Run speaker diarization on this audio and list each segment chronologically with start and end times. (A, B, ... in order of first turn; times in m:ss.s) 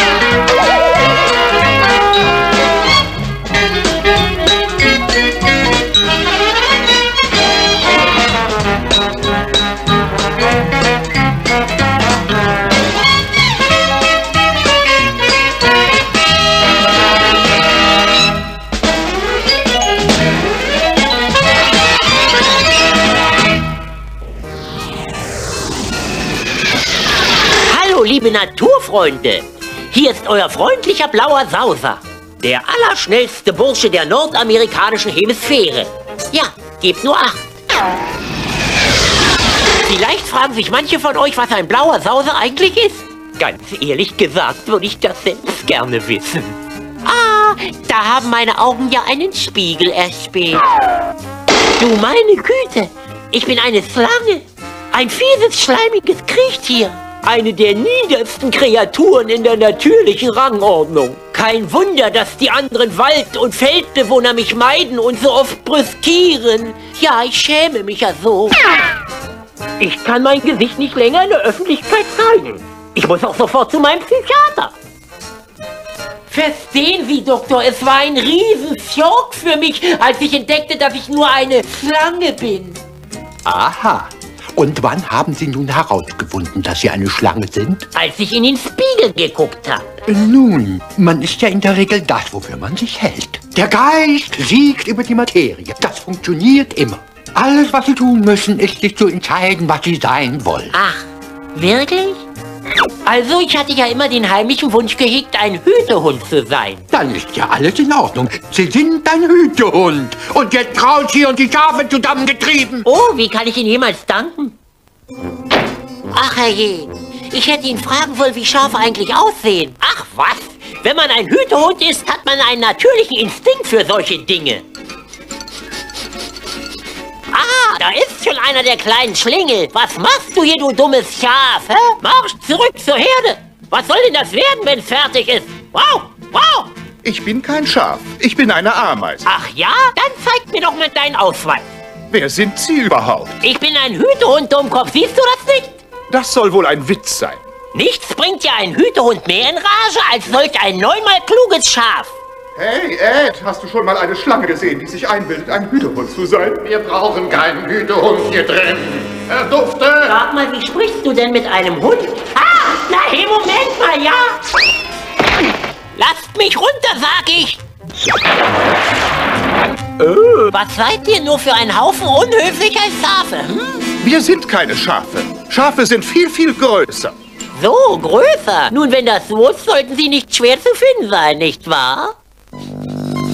0:27.6-0:37.4 A
0:39.8-0:50.6 A
0:51.8-1:08.6 A
1:09.8-1:14.8 A
1:16.3-1:22.8 A
1:23.4-1:27.8 B
1:27.9-1:29.9 A
1:30.1-1:40.8 B
1:40.7-1:42.2 A
1:43.0-1:46.9 A
1:46.9-1:52.9 B
1:52.8-1:54.6 A
1:56.1-2:04.6 A
2:07.3-2:16.7 A
2:17.0-2:19.3 C
2:19.2-2:21.7 A
2:22.1-2:23.4 C
2:23.4-2:25.8 A
2:26.1-2:27.4 C
2:27.7-2:32.2 A
2:32.6-2:36.6 C
2:36.6-2:40.1 D
2:40.0-2:44.4 A
2:46.0-2:47.6 A
2:50.0-2:53.8 A
2:54.0-2:57.1 C
2:57.6-3:02.2 A